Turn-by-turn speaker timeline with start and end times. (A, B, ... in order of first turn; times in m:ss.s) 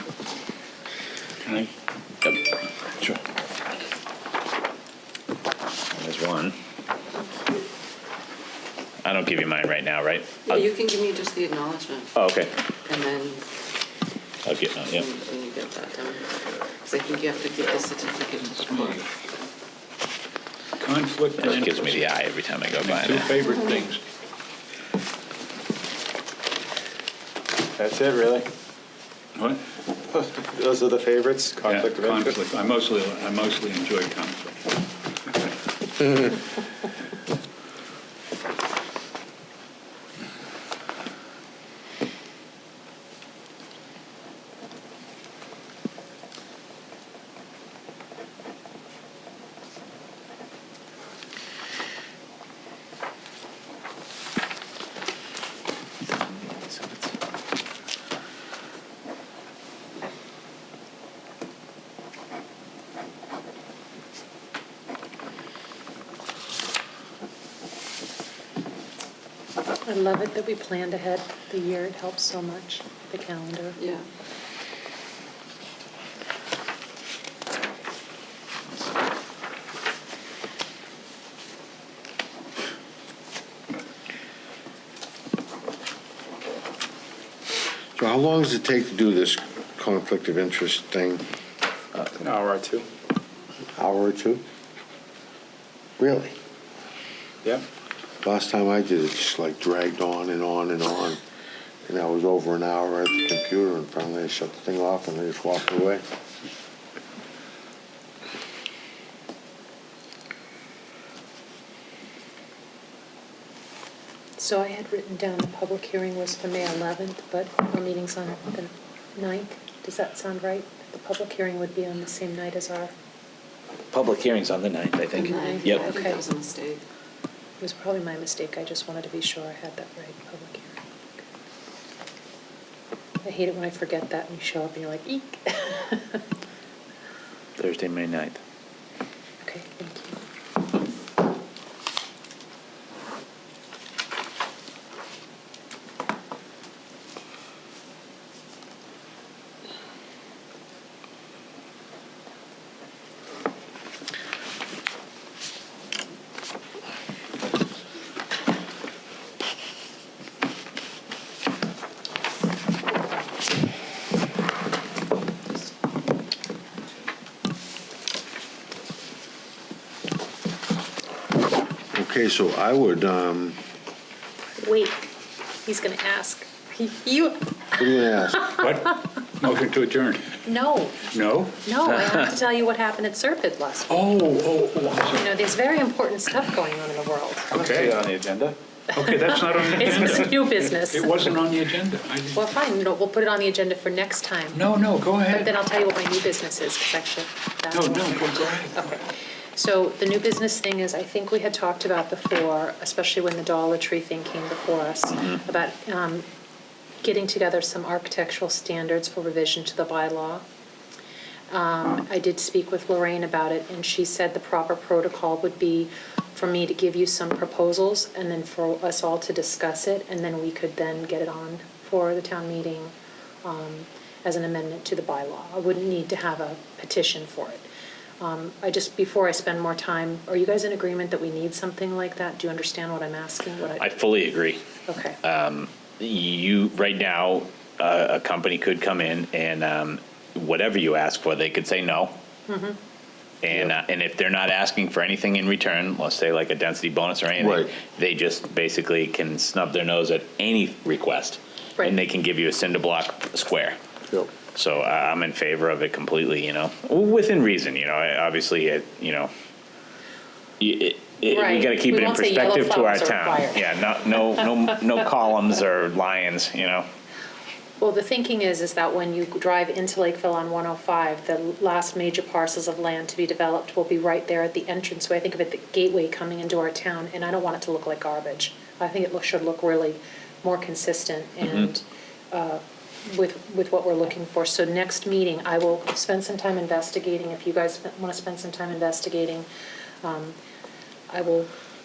0:01.4-0:01.7 A
0:05.9-0:06.6 B
0:09.0-0:10.7 B
0:10.5-0:12.1 C
0:12.2-0:12.5 B
0:12.9-0:13.4 C
0:14.5-0:15.1 B
0:14.9-0:16.3 C
0:16.8-0:19.0 C
0:18.5-0:19.0 A
0:20.8-0:22.0 A
0:21.4-0:23.4 B
0:22.8-0:24.0 A
0:27.8-0:28.5 D
0:29.4-0:29.6 A
0:30.1-0:32.4 D
0:31.6-0:34.6 A
0:56.2-0:57.1 B
1:09.9-1:13.8 E
1:28.0-1:31.2 F
1:32.2-1:32.9 D
1:33.8-1:34.4 F
1:36.0-1:36.4 F
1:38.2-1:41.2 F
1:41.9-1:46.0 F
1:54.4-2:02.9 E
2:03.9-2:05.8 B
2:05.2-2:06.8 C
2:05.3-2:06.2 E
2:07.6-2:10.8 E
2:13.2-2:16.2 E
2:17.6-2:18.4 B
2:19.4-2:20.2 E
2:51.9-2:53.6 F
2:54.6-2:55.1 E
2:55.6-2:57.5 E
2:57.8-2:58.5 F
2:58.6-3:00.3 A
3:00.4-3:04.0 E
3:01.1-3:01.6 A
3:03.9-3:05.2 A
3:05.2-3:07.5 E
3:07.5-3:08.0 A
3:07.5-3:08.6 D
3:08.9-3:12.4 A
3:09.1-3:11.3 E
3:12.3-3:14.6 E
3:14.6-3:15.5 A
3:15.3-3:26.3 E
3:17.7-3:18.9 A
3:27.0-3:30.4 E
3:31.5-3:47.7 E
3:48.2-3:54.0 E
3:53.8-3:54.6 B
3:54.9-3:55.2 E
3:55.2-4:02.1 B
4:02.5-4:02.8 E
4:03.4-4:13.8 B
4:07.4-4:07.7 F
4:14.5-4:19.3 B
4:20.6-4:26.9 B
4:21.3-4:23.7 E
4:27.8-4:49.5 E
4:50.0-4:50.4 E
4:51.1-4:51.5 E